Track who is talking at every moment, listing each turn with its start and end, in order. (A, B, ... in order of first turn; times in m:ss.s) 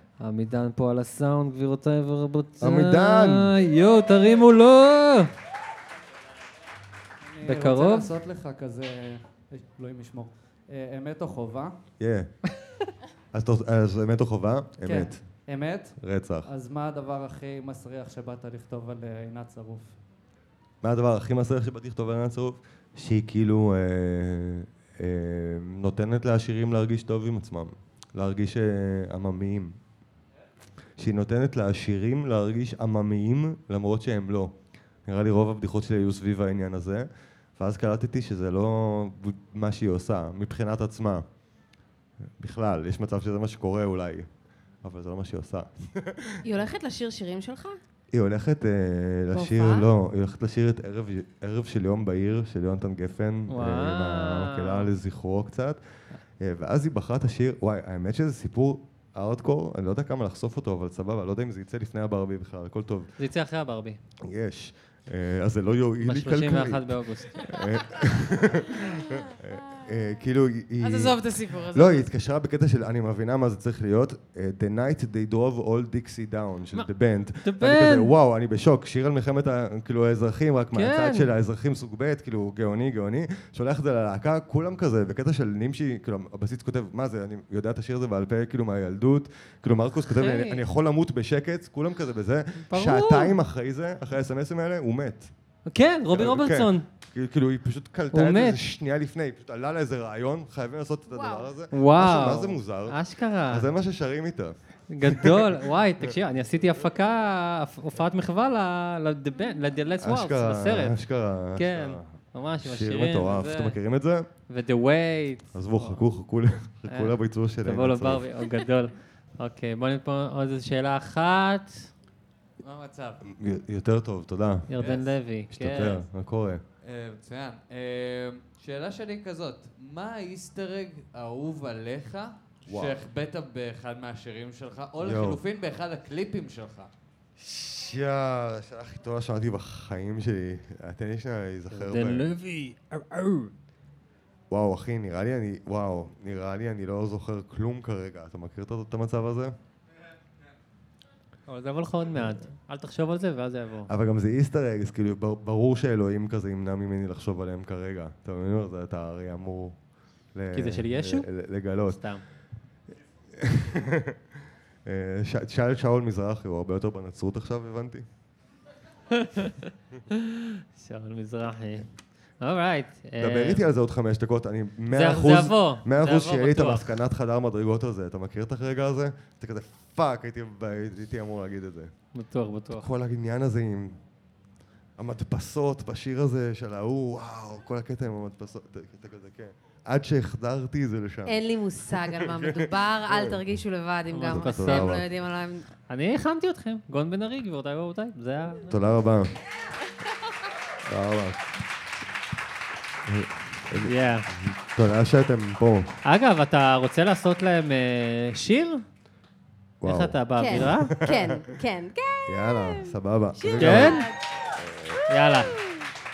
0:00.2-0:05.3 A
0:02.6-0:03.5 B
0:07.2-0:11.7 C
0:07.4-0:08.1 A
0:12.0-0:12.3 B
0:13.3-0:15.2 B
0:14.8-0:20.0 C
0:16.0-0:16.5 B
0:20.8-0:29.8 B
0:31.0-0:41.2 B
0:42.4-0:44.3 B
0:44.8-0:46.4 B
0:46.4-0:47.8 D
0:48.1-0:55.8 B
0:49.3-0:49.9 D
0:53.5-0:54.9 A
0:56.4-1:03.1 B
1:03.2-1:04.0 A
1:04.2-1:35.3 B
1:06.0-1:07.6 A
1:10.8-1:12.0 D
1:17.4-1:18.1 A
1:20.7-1:21.3 A
1:30.0-1:30.6 A
1:32.7-1:33.4 A
1:35.7-1:36.9 A
1:36.1-1:43.0 B
1:38.1-1:38.6 A
1:41.1-1:41.5 D
1:41.7-1:43.7 A
1:43.5-1:46.1 B
1:44.9-1:51.0 A
1:50.0-1:52.0 B
1:51.6-1:53.8 A
1:52.6-1:54.3 B
1:54.5-1:56.0 A
1:55.6-1:58.3 B
1:56.9-2:01.9 A
2:02.6-2:03.2 E
2:03.2-2:04.7 B
2:04.7-2:06.0 A
2:04.8-2:05.1 E
2:05.5-2:06.6 B
2:06.8-2:16.9 E
2:12.7-2:13.0 B
2:15.0-2:15.4 B
2:17.4-2:22.3 B
2:21.7-2:23.5 A
2:24.5-2:29.6 B
2:31.5-2:33.9 A
2:33.9-2:39.8 B
2:40.4-2:42.0 B
2:40.5-2:41.3 A
2:41.9-2:42.2 A
2:43.3-2:44.2 B
2:44.8-2:48.1 B
2:49.1-2:51.9 A
2:52.4-2:53.6 A
2:53.2-3:01.9 B
2:54.9-2:57.0 A
3:02.1-3:02.8 A
3:02.7-3:04.0 B
3:05.0-3:11.4 B
3:11.3-3:15.7 D
3:11.9-3:13.4 B
3:14.1-3:15.0 A
3:14.3-3:15.1 B
3:15.9-3:18.7 A
3:18.7-3:19.4 B
3:20.8-3:21.4 B
3:23.1-3:26.0 B
3:23.8-3:24.3 A
3:26.0-3:28.8 A
3:29.8-3:31.2 B
3:29.8-3:30.9 A
3:30.4-3:34.2 D
3:32.3-3:34.0 B
3:33.6-3:34.1 A
3:34.6-3:35.0 B
3:35.1-3:35.6 A